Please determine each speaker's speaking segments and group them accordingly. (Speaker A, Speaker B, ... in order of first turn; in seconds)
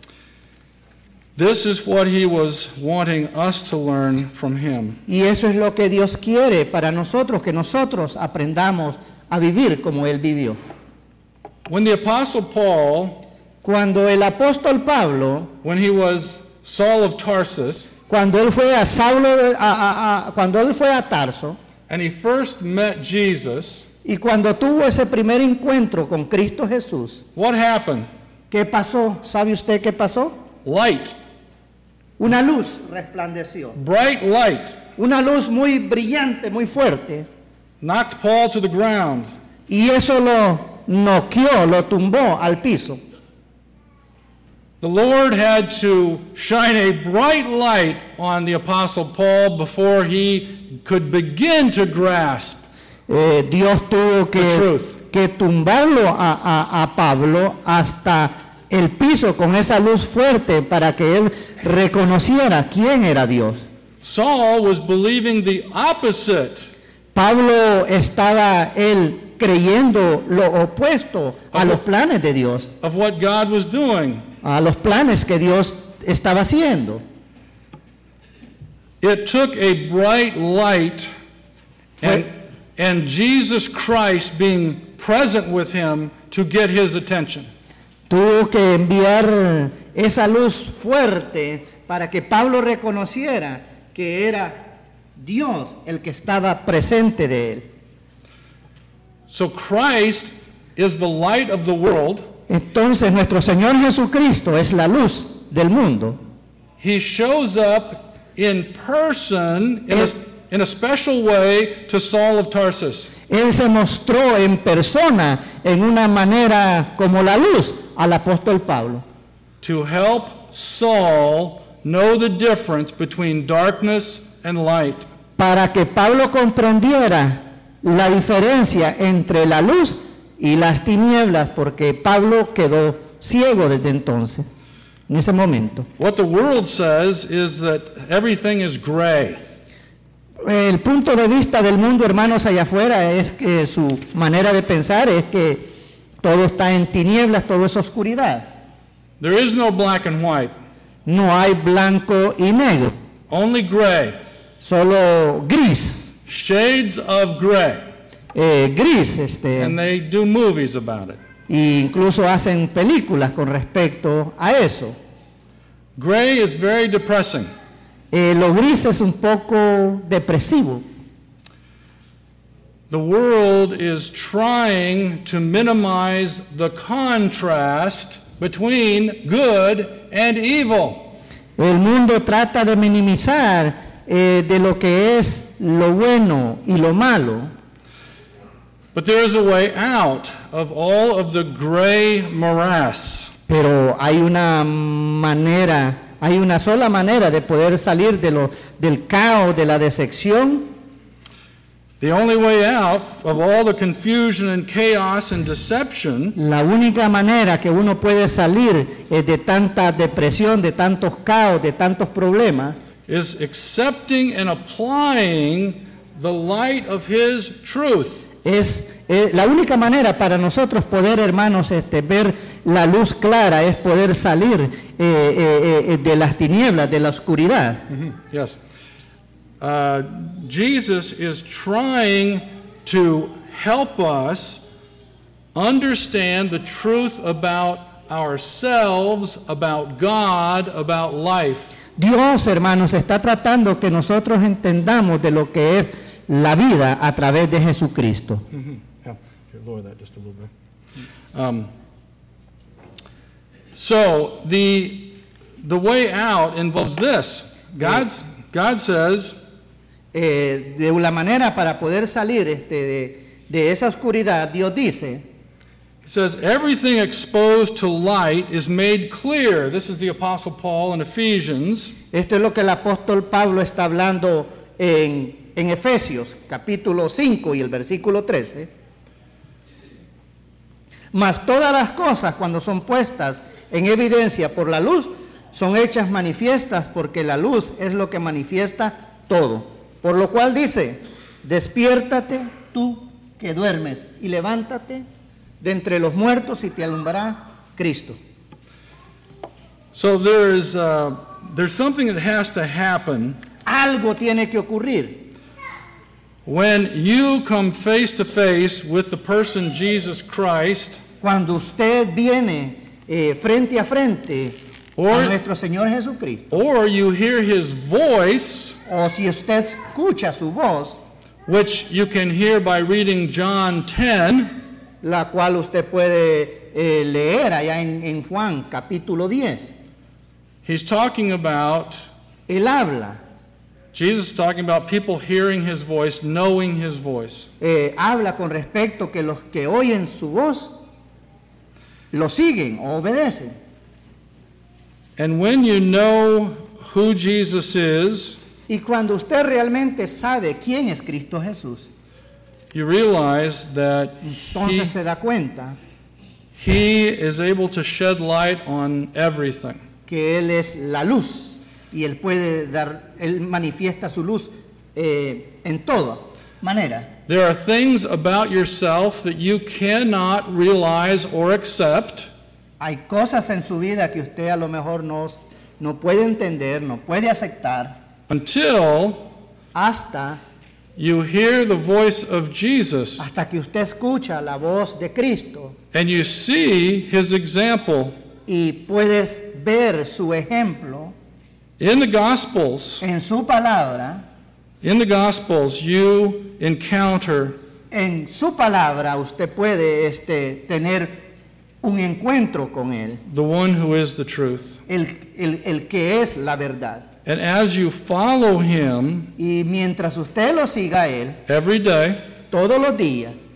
Speaker A: 1.4-5.0, 11.7-13.2, 15.6-17.9, 21.9-23.9, 27.4-28.1, 30.6-31.1, 33.8-34.8, 37.8-39.3, 44.8-52.6, 54.4-55.0, 64.0-66.7, 71.5-71.8, 72.8-74.2, 79.0-81.1, 82.0-87.5, 99.3-102.3, 106.8-113.1, 119.6-125.1, 136.0-139.4, 149.2-150.5, 153.3-154.2, 156.3-157.9, 159.6-161.2, 166.0-167.5, 172.9-181.2, 188.9-193.3, 202.0-206.4, 213.1-218.3, 227.9-228.6, 229.6-234.6, 235.6-241.8, 248.5-250.5, 251.3-251.7, 253.7-259.4, 266.0-272.0, 299.9-303.4, 306.5-311.0, 315.0-315.4, 316.5-318.8, 321.5-324.5, 330.6-332.0, 333.9-337.5, 345.2-348.4, 352.7-354.9, 356.6-359.8, 367.3-372.3, 378.3-379.3, 381.0-383.3, 385.9-388.2, 391.8-393.0, 394.8-397.6, 403.3-404.8, 407.3-409.3, 411.5-412.2
Speaker B: 5.1-10.6, 13.6-15.5, 18.1-21.6, 24.1-27.2, 28.5-30.4, 32.2-33.8, 35.0-37.3, 39.7-43.0, 53.1-63.6, 67.1-72.7, 74.4-77.0, 82.0-82.2, 88.1-97.7, 102.5-106.2, 113.3-119.0, 125.4-134.5, 135.1-135.9, 140.4-145.7, 146.2-148.5, 151.1-153.0, 154.6-156.1, 158.3-159.8, 161.5-165.0, 168.1-170.8, 181.6-187.5, 193.5-200.7, 206.4-212.8, 218.4-227.8, 242.0-248.4, 260.1-265.2, 272.1-278.7, 281.1-295.1, 295.6-298.2, 303.6-305.3, 311.2-314.6, 315.1-316.6, 318.9-321.0, 325.0-329.7, 332.5-333.2, 337.6-340.8, 342.1-343.6, 348.7-351.9, 354.3-355.8, 360.1-367.1, 372.8-378.0, 379.7-380.4, 383.2-385.8, 388.5-391.1, 393.0-394.2, 397.9-401.3, 401.8-403.2, 404.9-407.1, 409.4-411.4, 412.5-413.4